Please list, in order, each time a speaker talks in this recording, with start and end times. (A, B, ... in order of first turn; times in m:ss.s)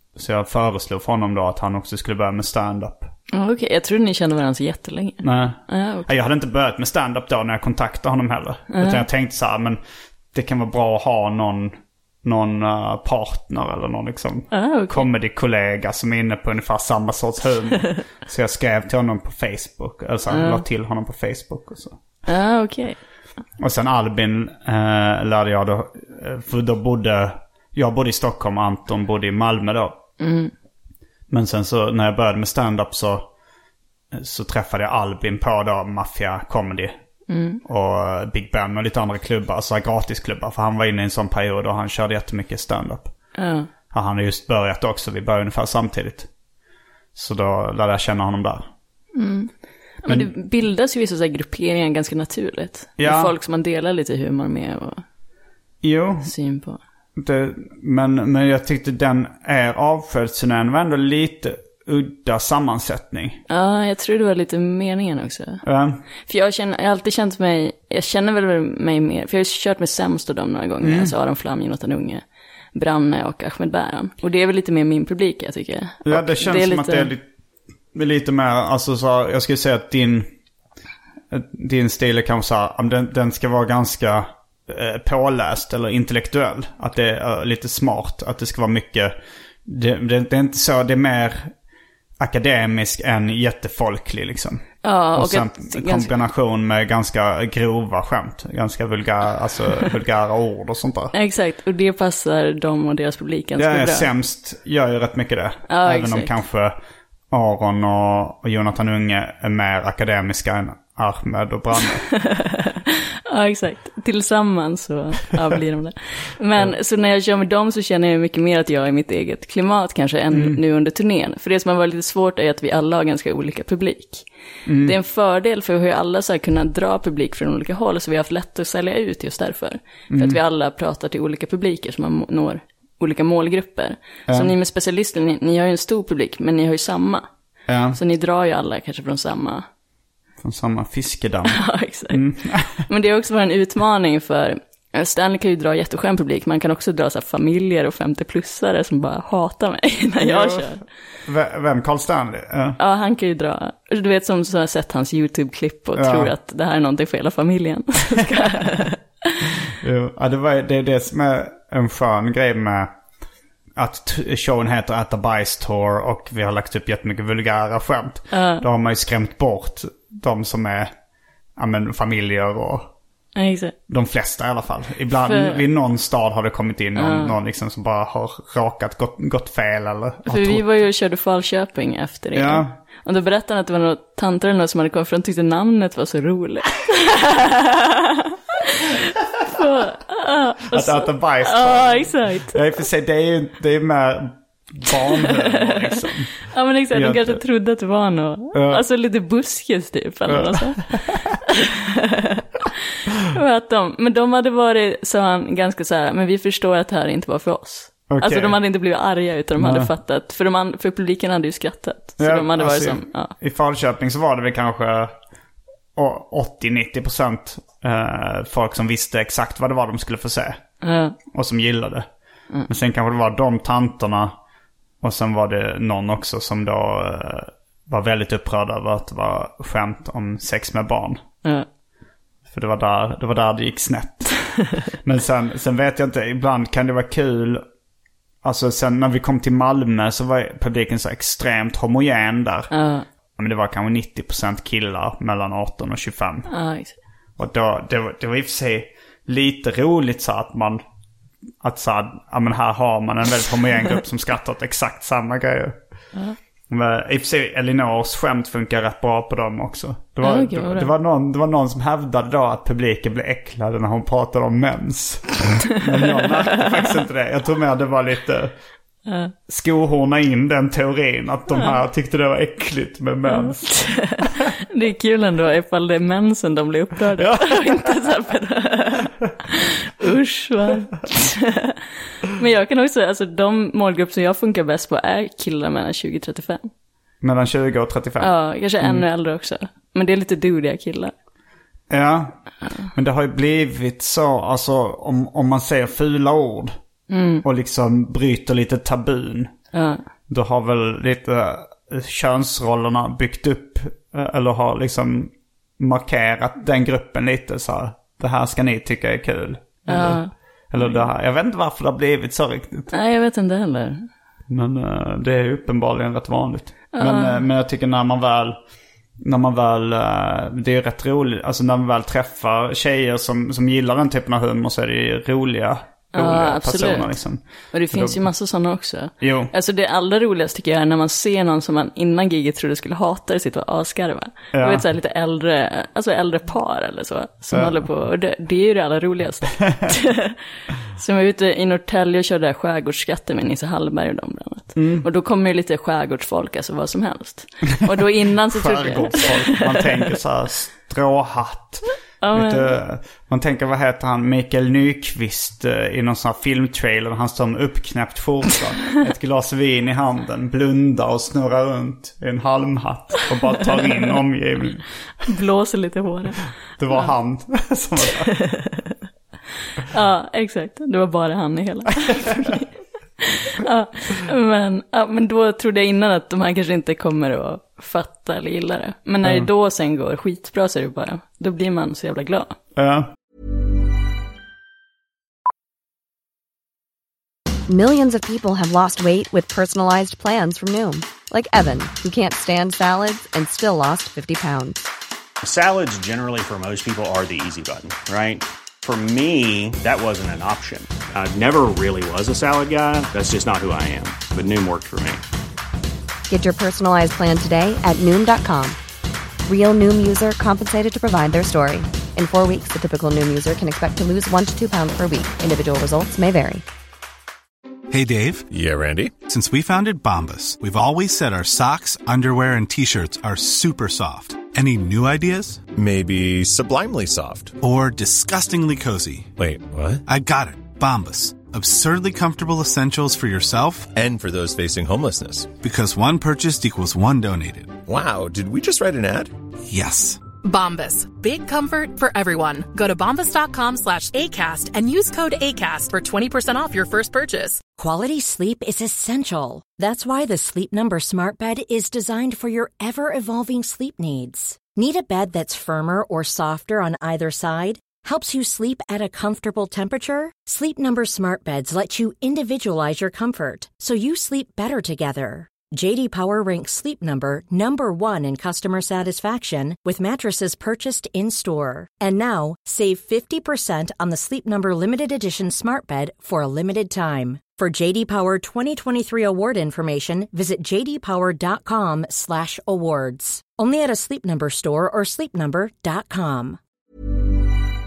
0:00.2-0:03.1 A
0:03.3-0:06.1 B
0:05.2-0:09.8 A
0:08.7-0:09.0 B
0:10.3-0:22.0 A
0:14.5-0:15.1 B
0:20.3-0:20.6 B
0:22.3-0:23.0 B
0:23.6-0:30.0 A
0:30.2-0:30.5 B
0:31.3-0:33.2 A
0:34.1-0:36.9 A
0:37.3-0:37.6 B
0:37.6-0:43.1 A
0:43.4-0:43.7 B
0:43.9-0:46.3 A
0:47.1-0:48.7 A
0:49.1-0:55.0 B
0:53.0-0:53.3 A
0:55.8-0:56.3 A
0:56.2-0:56.8 B
0:57.2-1:03.4 A
1:03.5-1:05.6 B
1:05.6-1:06.0 A
1:06.3-1:17.1 B
1:10.8-1:11.1 A
1:16.0-1:17.2 A
1:17.9-1:20.3 A
1:21.3-1:29.1 A
1:29.6-1:31.5 A
1:32.2-1:41.1 A
1:34.8-1:36.1 B
1:41.1-1:44.1 B
1:43.6-1:46.8 A
1:45.7-1:46.3 B
1:47.3-1:52.1 A
1:52.1-2:04.3 B
2:00.3-2:00.6 A
2:04.6-2:04.9 A
2:04.8-2:17.2 B
2:10.1-2:10.4 A
2:14.3-2:14.5 A
2:17.7-2:18.0 A
2:17.9-2:19.6 B
2:20.4-2:22.9 A
2:21.5-2:30.8 B
2:30.2-2:32.8 A
2:32.8-2:39.3 B
2:36.0-2:36.3 A
2:39.8-2:42.9 A
2:43.8-2:50.9 A
2:48.3-2:48.6 B
2:51.6-2:52.9 A
2:53.4-2:53.7 B
2:53.9-3:00.6 A
2:55.2-2:55.6 B
2:57.0-2:57.3 B
3:00.3-3:12.6 B
3:02.3-3:02.7 A
3:10.7-3:17.4 A
3:16.5-3:22.4 B
3:18.5-3:18.8 A
3:20.3-3:21.2 A
3:23.2-3:33.3 B
3:28.1-3:28.6 A
3:29.6-3:29.9 A
3:32.2-3:35.1 A
3:36.0-3:40.6 A
3:40.8-3:41.2 B
3:41.3-3:42.0 A
3:42.7-3:44.3 A
3:45.0-3:51.2 A
3:52.5-3:57.6 A
3:58.4-4:02.7 A
4:02.7-4:03.0 B
4:03.4-4:06.5 A
4:06.5-4:06.9 B
4:07.4-4:10.8 A
4:11.6-4:15.7 A
4:16.7-4:28.5 A
4:20.2-4:20.9 B
4:29.1-4:29.3 B
4:29.5-4:34.2 A
4:33.3-4:41.8 B
4:37.2-4:37.7 A
4:42.3-4:46.7 B
4:47.2-4:49.0 A
4:48.2-4:51.1 B
4:51.9-4:52.4 A
4:52.9-4:56.7 A
4:57.1-4:57.4 B
4:57.4-4:59.5 A
4:59.7-5:00.0 B
5:00.3-5:12.9 A
5:09.9-5:11.0 B
5:12.9-5:14.0 B
5:14.5-5:18.6 A
5:16.9-5:17.5 B
5:19.2-5:28.2 A
5:26.1-5:27.1 B
5:27.7-5:49.8 B
5:29.2-5:29.5 A
5:34.5-5:34.8 A
5:44.8-5:45.0 A
5:48.5-6:04.9 A
5:52.2-5:52.8 B
6:05.2-6:07.1 B
6:06.8-6:08.3 A
6:08.3-6:08.9 B
6:09.9-6:12.7 B
6:13.2-6:22.6 B
6:22.8-6:23.1 A
6:27.7-6:34.8 C
6:35.4-6:45.2 D
6:46.3-6:48.8 C
6:49.4-6:56.6 C
6:57.9-6:58.5 E
6:58.5-6:59.2 F
6:59.2-7:05.6 E
7:05.7-7:07.6 F
7:07.6-7:09.3 E
7:09.4-7:10.0 F
7:10.0-7:13.9 E
7:13.9-7:15.6 F
7:15.6-7:17.8 E
7:17.8-7:19.3 F
7:19.6-7:20.2 E
7:20.4-7:27.6 G
7:27.8-8:06.6 H